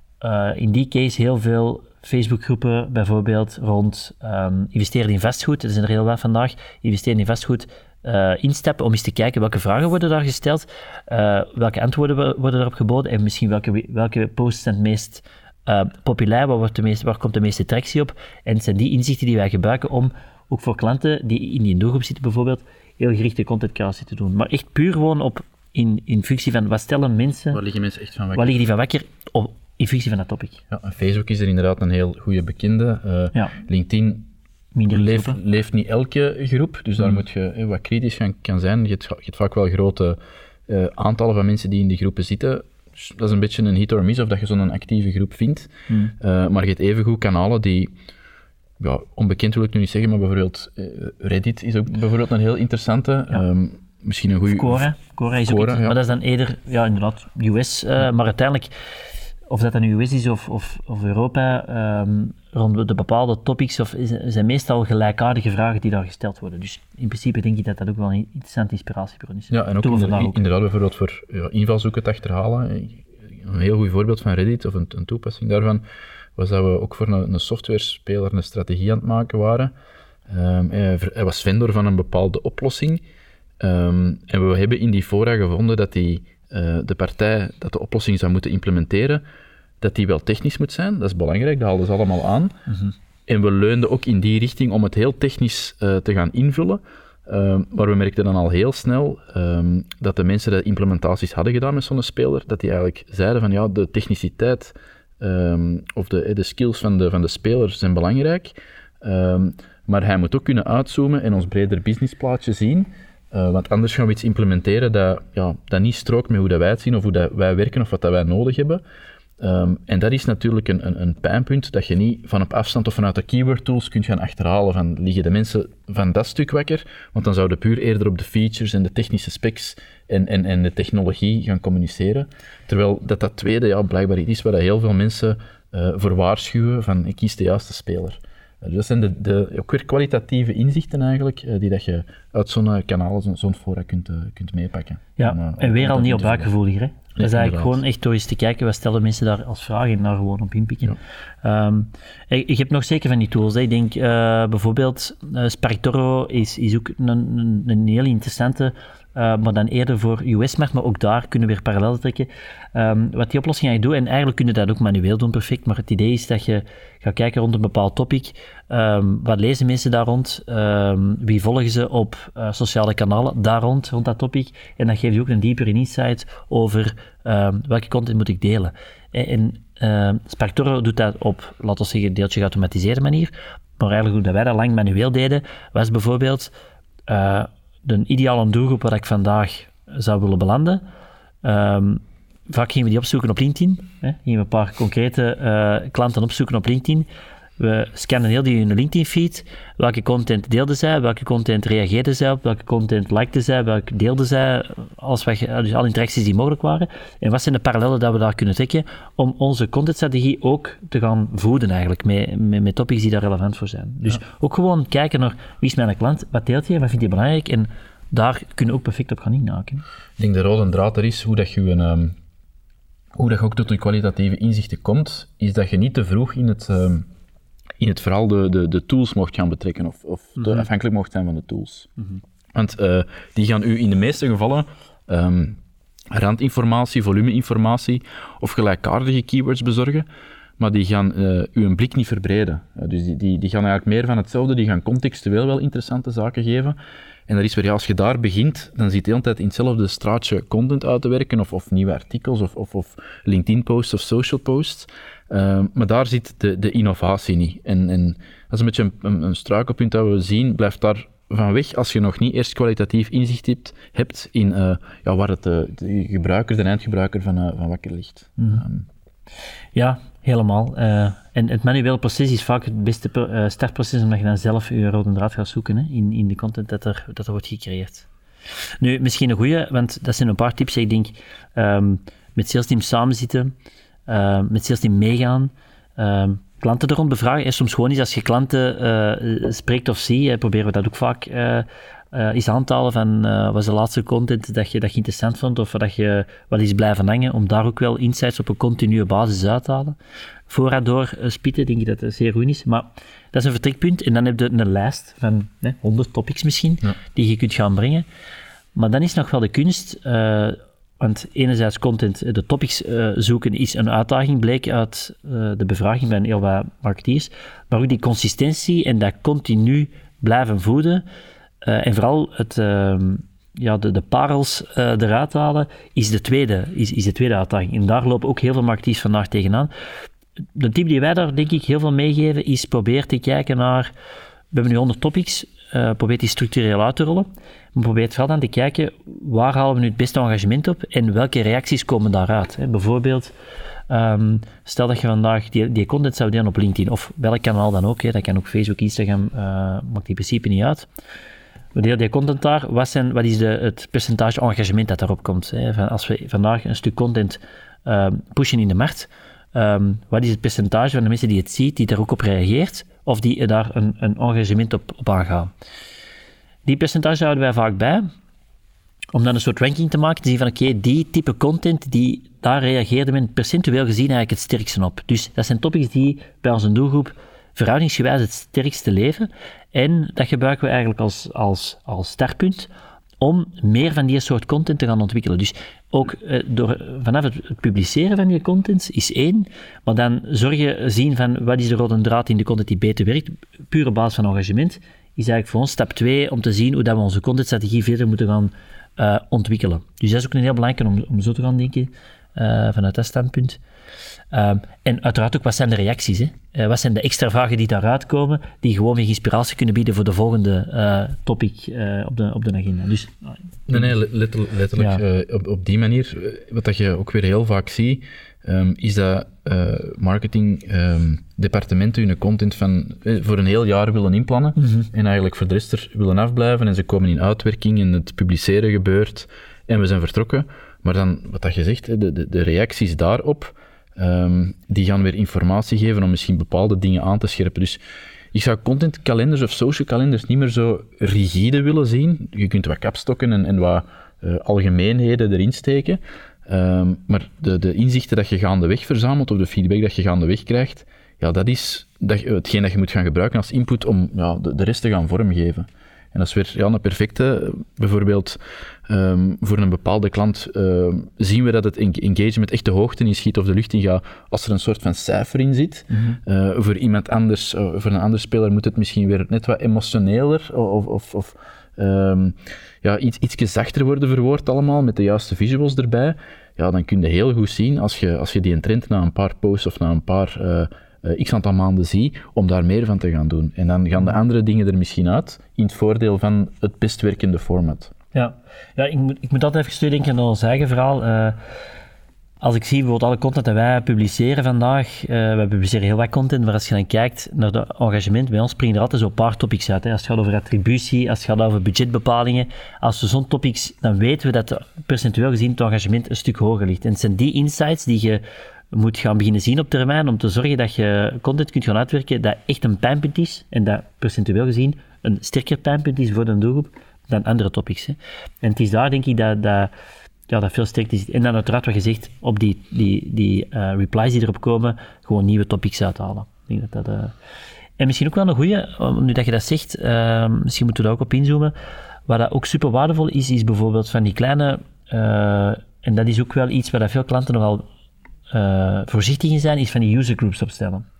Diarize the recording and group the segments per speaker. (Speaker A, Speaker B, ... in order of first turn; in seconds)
Speaker A: 0.2-27.6, 28.3-30.6, 34.8-35.4, 45.9-46.1, 54.5-58.7, 59.5-70.5, 145.2-186.5, 187.1-190.8, 191.4-197.1, 197.6-219.8, 230.4-230.7, 268.4-268.6, 269.8-278.1, 278.8-283.5, 284.1-300.0, 300.5-308.1, 308.8-321.1, 321.6-329.7, 330.6-333.9, 334.5-343.3, 343.9-350.9, 351.8-365.5, 366.7-368.1, 369.1-382.7, 383.2-403.6, 404.3-413.9, 414.8-415.0, 424.6-424.9, 488.1-491.4, 492.4-519.7, 520.3-527.1, 527.8-531.5, 532.1-537.6, 538.3-540.9
Speaker B: 27.5-28.5, 30.7-34.3, 34.9-40.2, 40.7-47.9, 48.8-54.9, 55.5-56.0, 69.5-75.8, 76.4-79.7, 80.3-83.0, 83.6-89.2, 89.8-92.6, 93.3-118.8, 119.4-146.5, 147.2-147.8, 220.2-222.2, 223.1-227.1, 227.8-231.9, 232.5-235.6, 236.1-240.1, 240.6-246.8, 247.3-268.9, 413.7-437.8, 438.3-487.9